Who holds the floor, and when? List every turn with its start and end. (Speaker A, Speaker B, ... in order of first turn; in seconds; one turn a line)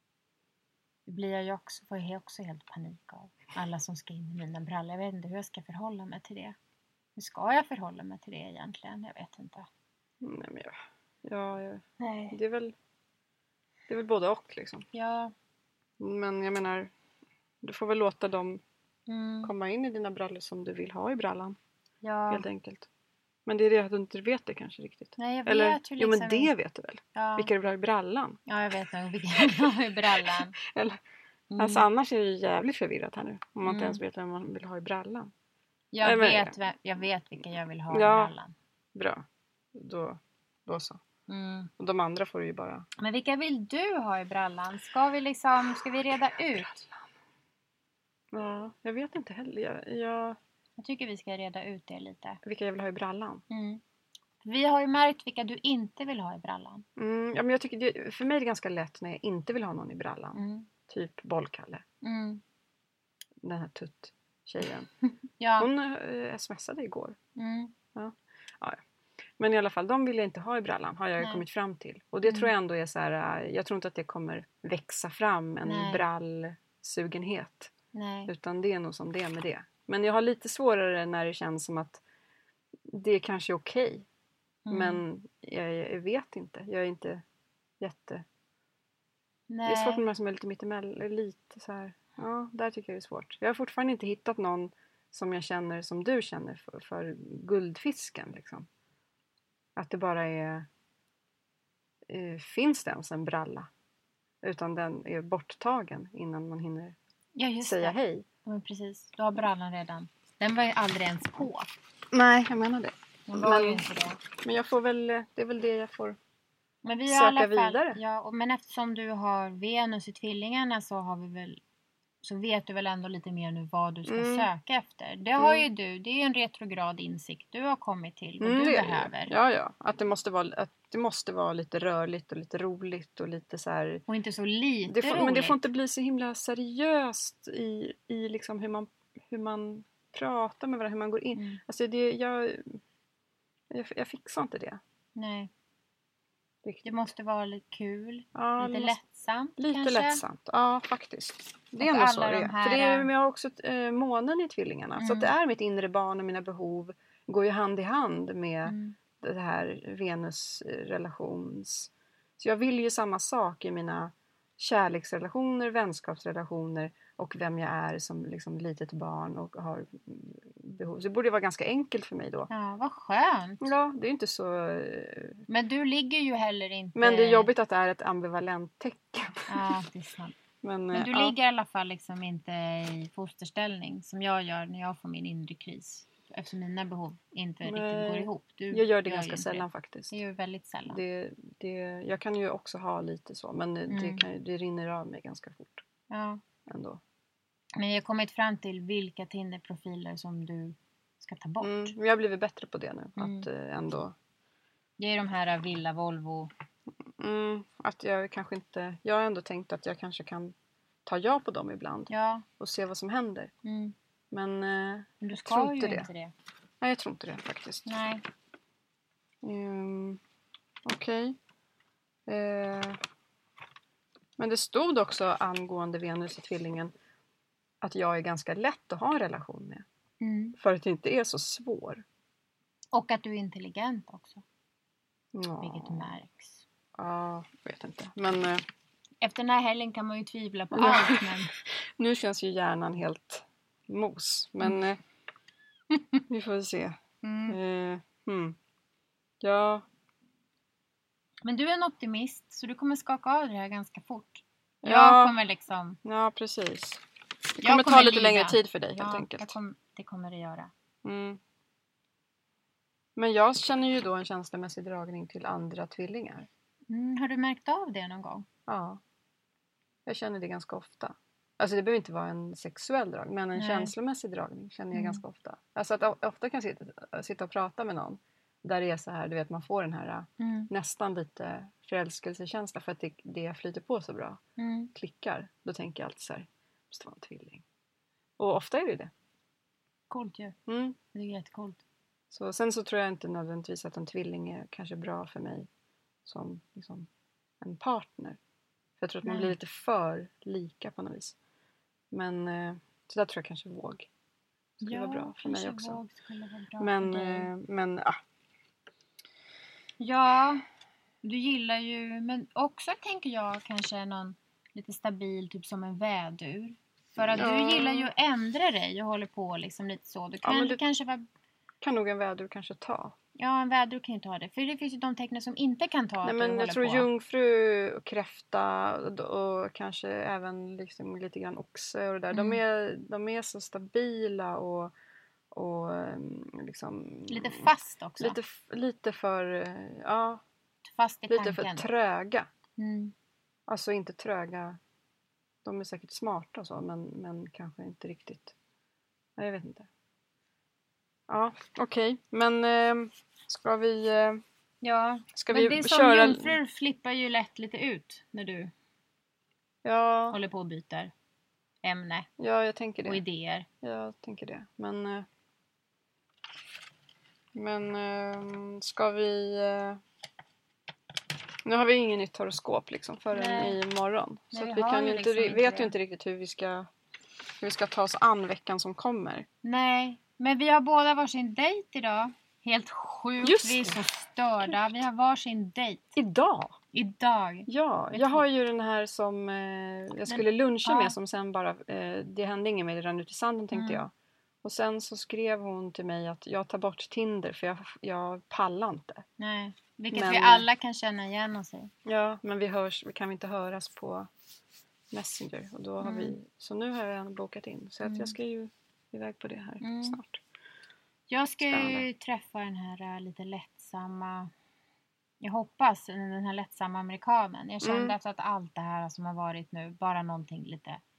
Speaker A: 1.1-6.6
Speaker A: 7.2-9.7
Speaker B: 10.2-12.7
Speaker A: 12.0-12.4
Speaker B: 13.9-14.9
Speaker A: 14.9-15.3
Speaker B: 16.0-16.9
Speaker B: 17.6-18.6
Speaker A: 19.1-19.5
Speaker B: 19.4-21.6
Speaker A: 22.0-22.4
Speaker B: 22.3-22.9
Speaker B: 23.4-28.4
Speaker A: 25.2-26.5
Speaker A: 27.1-27.5
Speaker A: 28.5-30.6
Speaker B: 29.4-31.0
Speaker A: 31.5-31.9
Speaker B: 31.6-35.3
Speaker A: 33.6-34.0
Speaker A: 35.9-38.5
Speaker B: 36.0-36.6
Speaker B: 37.9-38.3
Speaker B: 38.9-41.0
Speaker A: 41.3-41.7
Speaker B: 41.8-42.9
Speaker A: 43.0-46.7
Speaker B: 46.5-47.1
Speaker B: 48.3-50.4
Speaker A: 50.8-52.4
Speaker B: 52.4-53.4
Speaker A: 53.5-53.8
Speaker A: 54.4-56.9
Speaker B: 57.0-61.8
Speaker A: 60.4-60.7
Speaker A: 62.0-62.4
Speaker B: 63.4-64.9
Speaker A: 65.4-65.7
Speaker B: 65.6-67.2
Speaker A: 67.4-67.7
Speaker B: 67.9-68.8
Speaker B: 69.4-77.7
Speaker A: 72.2-72.5
Speaker A: 75.6-76.0
Speaker A: 77.9-78.3
Speaker B: 78.3-82.0
Speaker B: 82.9-84.1
Speaker A: 84.7-85.0
Speaker B: 84.7-87.2
Speaker B: 87.8-88.2
Speaker A: 89.5-90.0
Speaker B: 89.7-98.7
Speaker B: 99.8-100.7
Speaker B: 102.1-103.7
Speaker B: 104.4-107.0
Speaker A: 107.4-111.7
Speaker B: 107.6-108.3
Speaker B: 112.1-116.2
Speaker A: 113.3-114.2
Speaker A: 116.8-121.6
Speaker B: 117.1-118.0
Speaker A: 122.2-129.3
Speaker B: 124.1-124.5
Speaker B: 125.4-125.7
Speaker B: 128.4-134.0
Speaker A: 134.1-135.7
Speaker B: 134.9-142.8
Speaker A: 141.3-141.6
Speaker B: 143.7-144.8
Speaker A: 145.2-145.5
Speaker A: 146.8-150.2
Speaker B: 148.3-149.0
Speaker B: 149.6-172.5
Speaker A: 151.8-153.1
Speaker A: 155.0-155.3
Speaker A: 158.6-159.0
Speaker A: 172.5-173.7
Speaker B: 173.6-175.4
Speaker A: 175.5-177.5
Speaker B: 176.9-179.8
Speaker A: 179.5-180.3
Speaker B: 180.6-181.3
Speaker A: 180.9-191.0
Speaker B: 187.6-190.2
Speaker B: 190.9-195.8
Speaker A: 193.9-194.2
Speaker A: 196.1-196.4
Speaker B: 196.7-197.0
Speaker A: 197.8-201.9
Speaker B: 201.6-204.1
Speaker A: 203.2-203.5
Speaker A: 205.0-206.5
Speaker B: 207.1-210.6
Speaker B: 211.1-213.5
Speaker A: 212.1-212.4
Speaker A: 213.6-213.9
Speaker B: 214.3-216.1
Speaker A: 215.2-216.3
Speaker B: 216.8-217.9
Speaker A: 217.9-218.2
Speaker B: 219.4-220.2
Speaker B: 220.8-221.4
Speaker B: 222.3-223.0
Speaker B: 224.4-226.9
Speaker B: 227.8-229.9
Speaker A: 230.2-230.6
Speaker B: 230.6-232.0
Speaker A: 232.9-234.4
Speaker B: 235.3-236.1
Speaker A: 235.6-236.6
Speaker B: 236.9-238.6
Speaker A: 239.2-241.5
Speaker B: 240.7-241.4
Speaker B: 242.0-245.0
Speaker A: 245.9-246.2
Speaker B: 246.3-248.6
Speaker A: 247.2-247.6
Speaker B: 249.4-249.8
Speaker A: 251.4-256.0
Speaker B: 254.8-255.4
Speaker B: 256.0-257.0
Speaker B: 257.6-259.6
Speaker A: 257.6-260.7
Speaker B: 261.0-261.4
Speaker B: 263.1-266.5
Speaker A: 266.9-268.4
Speaker B: 268.7-269.0
Speaker B: 270.1-284.4
Speaker A: 273.6-273.9
Speaker A: 274.9-275.2
Speaker A: 280.4-280.7
Speaker A: 284.6-284.9
Speaker B: 284.9-287.6
Speaker B: 288.4-289.1
Speaker A: 290.1-290.6
Speaker B: 290.7-291.0
Speaker A: 291.1-291.8
Speaker B: 292.3-295.7
Speaker B: 296.2-297.1
Speaker B: 297.6-298.4
Speaker B: 299.0-301.4
Speaker A: 299.2-299.6
Speaker B: 302.1-304.1
Speaker B: 304.8-306.0
Speaker A: 304.8-307.5
Speaker B: 306.8-308.2
Speaker A: 310.0-310.6
Speaker A: 311.2-321.2
Speaker B: 317.3-318.1
Speaker B: 320.4-320.8
Speaker B: 321.8-323.1
Speaker A: 323.4-327.1
Speaker B: 326.2-334.9
Speaker A: 332.3-332.6
Speaker B: 335.5-340.4
Speaker A: 337.3-338.4
Speaker A: 340.8-341.9
Speaker B: 341.3-342.5
Speaker A: 342.8-343.1
Speaker B: 343.7-344.8
Speaker B: 345.6-348.6
Speaker B: 349.4-349.9
Speaker B: 351.3-354.4
Speaker A: 354.8-358.7
Speaker B: 355.4-356.6
Speaker B: 359.8-360.4
Speaker A: 360.3-361.1
Speaker A: 361.8-362.3
Speaker B: 362.4-363.2
Speaker A: 363.1-363.6
Speaker B: 363.8-365.3
Speaker B: 367.5-370.0
Speaker B: 371.6-376.9
Speaker A: 373.3-373.8
Speaker A: 374.5-375.9
Speaker B: 377.6-379.5
Speaker A: 379.6-386.2
Speaker B: 383.4-384.0
Speaker B: 384.6-385.0
Speaker B: 386.1-386.8
Speaker A: 386.9-388.4
Speaker B: 387.7-394.1
Speaker A: 390.3-391.1
Speaker A: 393.7-394.0
Speaker B: 394.6-399.3
Speaker A: 399.4-401.9
Speaker B: 400.1-400.6
Speaker B: 402.1-404.3
Speaker B: 405.1-410.4
Speaker A: 406.0-406.4
Speaker A: 408.0-408.4
Speaker A: 409.8-410.2
Speaker A: 411.3-414.5
Speaker B: 411.6-412.1
Speaker A: 415.4-421.0
Speaker B: 417.8-418.1